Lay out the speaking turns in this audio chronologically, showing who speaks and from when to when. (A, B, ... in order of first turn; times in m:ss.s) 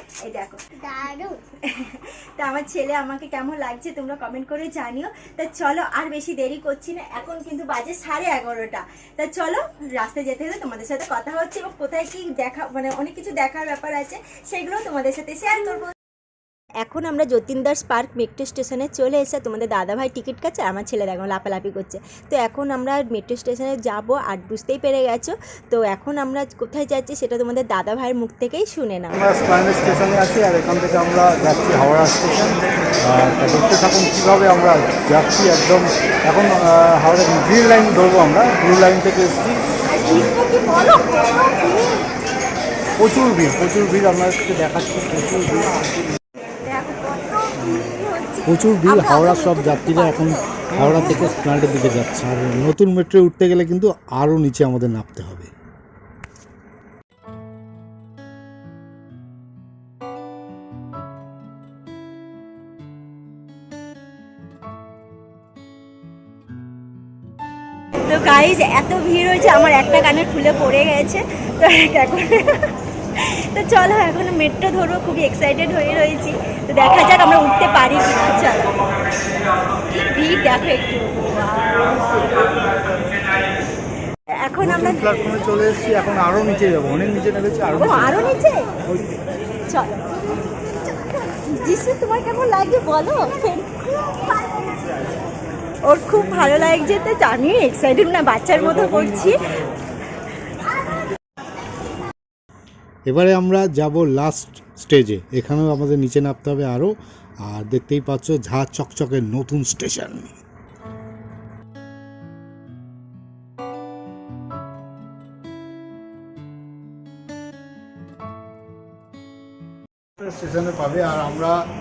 0:00.2-0:15.9 A
0:16.8-0:29.2 A
0:29.2-0:40.3 B
0:39.9-0:42.0 A
0:43.0-0:45.8 B
0:46.6-0:51.2 A
0:48.5-0:55.5 B
1:08.1-1:18.7 A
1:20.0-1:22.3 A
1:24.5-1:25.1 A
1:24.6-1:28.3 B
1:27.8-1:28.7 A
1:29.7-1:34.3 A
1:35.9-1:39.5 A
1:43.1-1:46.9 B
1:47.4-1:50.4 B
2:00.2-2:01.6 B